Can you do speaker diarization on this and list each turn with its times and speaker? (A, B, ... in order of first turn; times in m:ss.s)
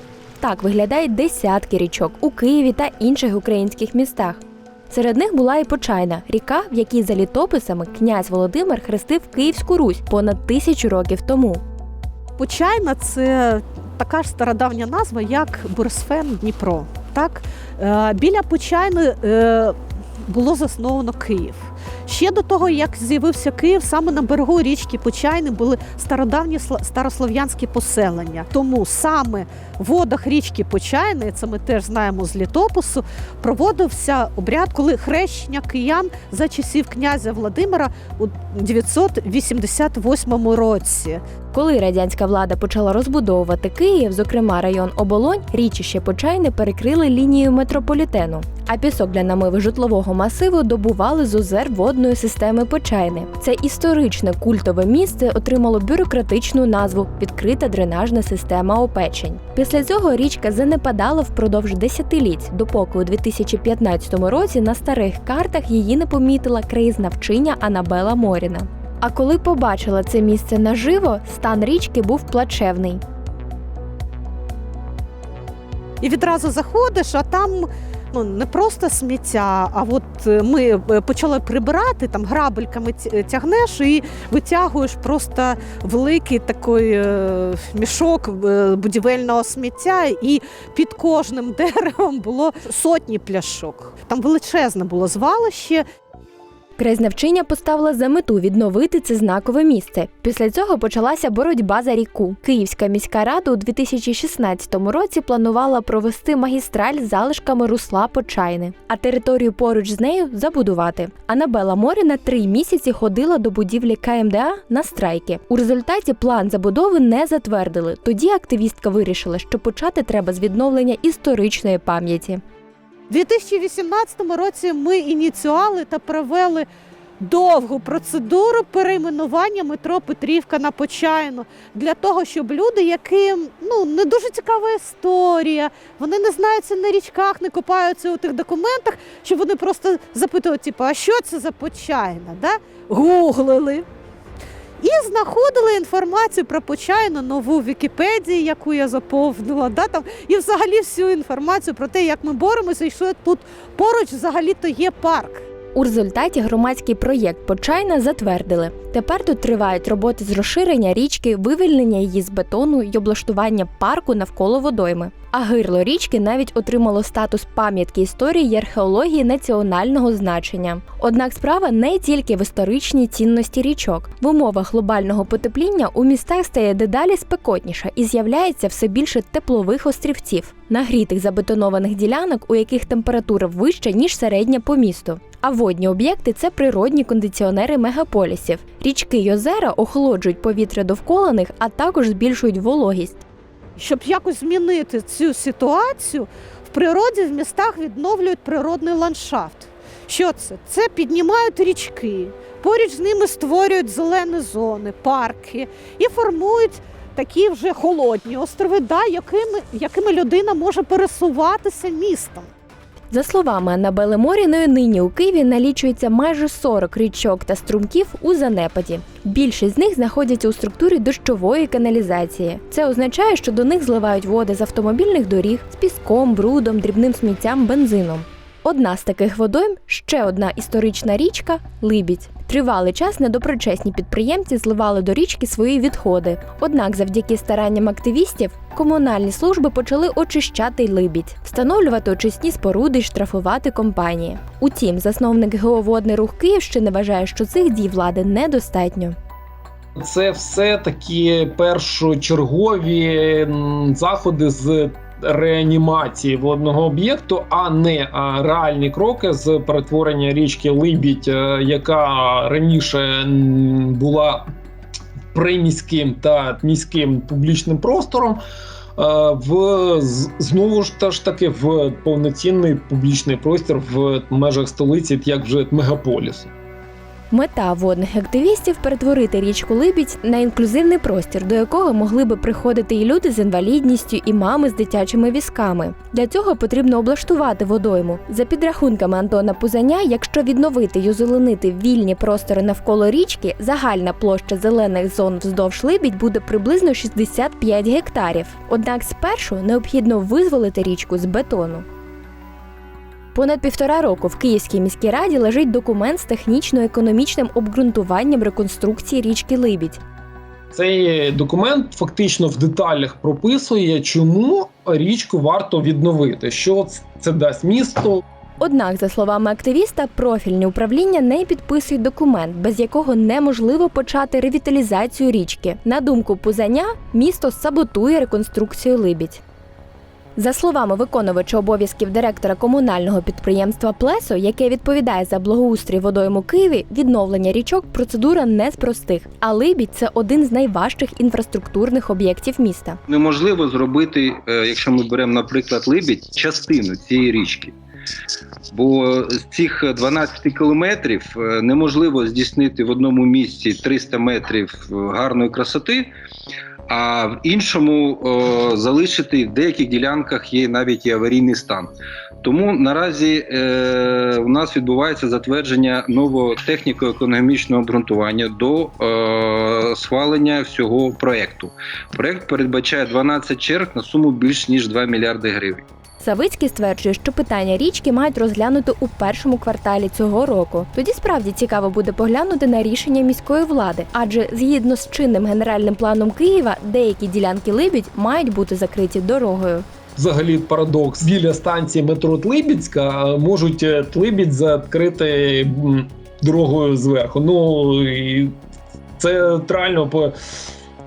0:00.4-0:11.6 A
0:12.4-0:41.2 B
0:41.5-1:13.0 A
1:16.0-1:35.8 B
1:36.8-2:02.4 A
2:03.1-2:06.7 B
2:07.2-2:23.8 B
2:24.8-2:35.5 B
2:35.7-3:13.2 A
3:13.8-3:32.5 B
3:33.1-4:09.2 A
4:10.0-4:24.4 C
4:25.3-4:28.4 C
4:29.0-4:36.5 C
4:37.3-5:01.8 A
5:03.3-5:10.0 A
5:10.7-5:18.2 C
5:18.6-5:29.4 A
5:30.4-5:43.0 A
5:43.1-5:47.7 D
5:48.7-5:56.1 D
5:56.9-6:15.8 D
6:16.2-6:29.8 A
6:30.2-6:38.5 C
6:39.2-6:40.6 C